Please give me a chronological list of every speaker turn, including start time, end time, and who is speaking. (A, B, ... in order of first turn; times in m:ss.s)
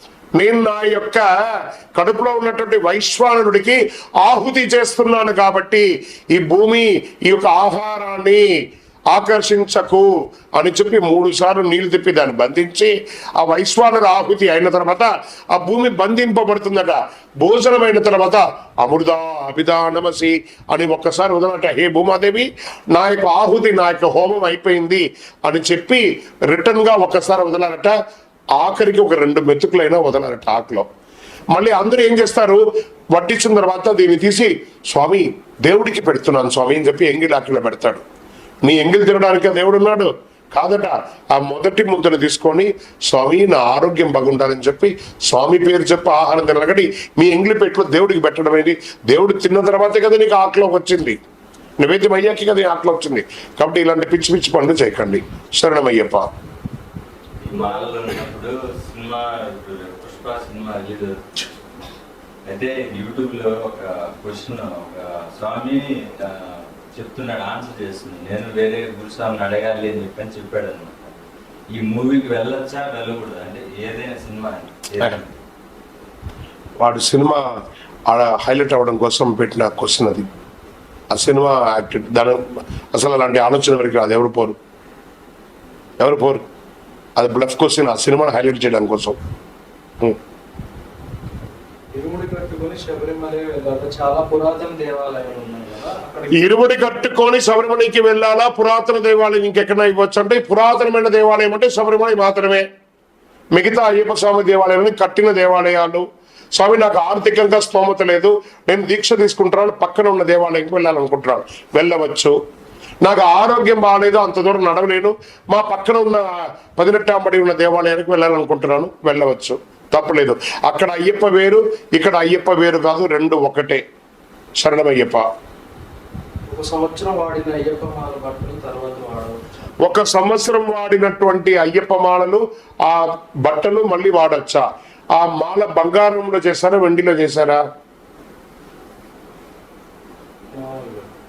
0:00.4-0:08.5 A
0:09.1-0:28.0 A
0:28.6-0:30.8 A
0:31.5-0:38.0 A
0:38.6-0:51.2 A
0:51.8-0:56.2 A
0:57.4-1:01.5 B
1:02.4-1:11.1 B
1:11.7-1:15.3 B
1:16.8-1:17.4 A
1:18.1-1:20.2 A
1:21.1-1:24.6 A
1:26.0-1:26.4 A
1:27.2-1:29.2 A
1:31.9-1:36.3 C
1:36.3-1:42.6 A
1:43.5-1:52.3 A
1:53.0-2:03.8 A
2:04.6-2:05.2 A
2:06.5-2:09.7 C
2:09.8-2:14.6 A
2:15.2-2:17.6 A
2:20.5-2:21.1 C